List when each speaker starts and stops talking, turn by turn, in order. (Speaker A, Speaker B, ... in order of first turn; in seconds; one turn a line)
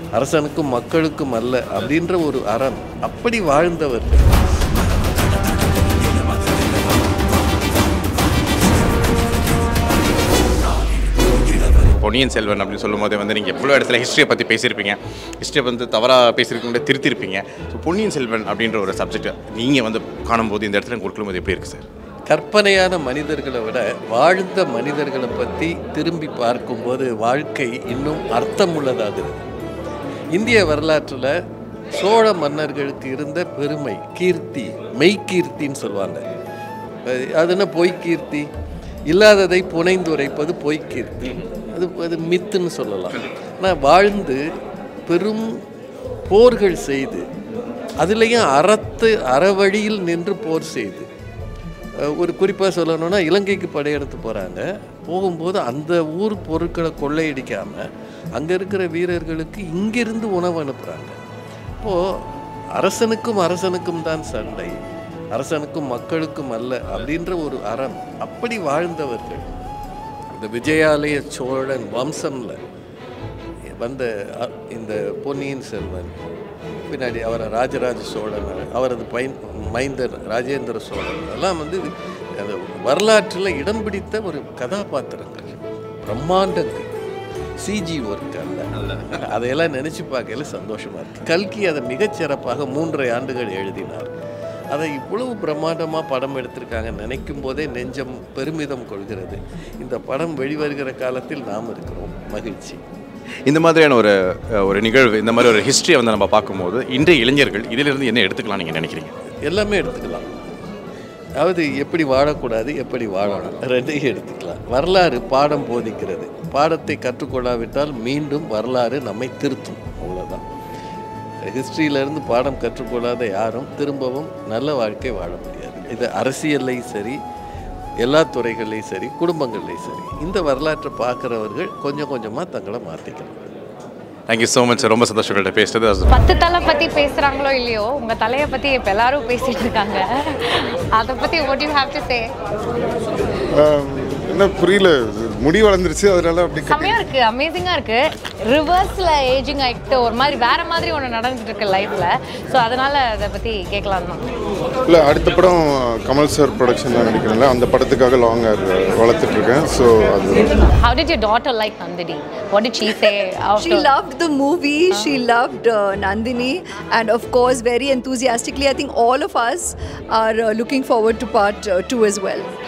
Speaker A: 0.1-4.3
Speaker B: 12.0-21.9
Speaker A: 22.3-29.4
Speaker A: 30.3-31.4
Speaker A: 31.9-36.3
Speaker A: 37.0-38.5
Speaker A: 39.1-44.4
Speaker A: 45.1-45.6
Speaker A: 46.3-47.2
Speaker A: 48.0-51.1
Speaker A: 52.0-61.2
Speaker A: 61.8-69.5
Speaker A: 70.3-72.6
Speaker A: 73.8-76.2
Speaker A: 76.9-86.9
Speaker A: 87.6-94.1
Speaker A: 94.7-102.8
Speaker B: 103.5-109.1
Speaker A: 109.4-110.3
Speaker A: 111.4-120.5
Speaker A: 121.5-127.2
Speaker A: 128.0-133.5
Speaker B: 134.3-136.1
Speaker C: 136.1-142.3
Speaker D: 143.5-147.0
Speaker C: 146.6-154.2
Speaker D: 154.9-160.6
Speaker C: 160.8-163.9
Speaker E: 162.9-172.5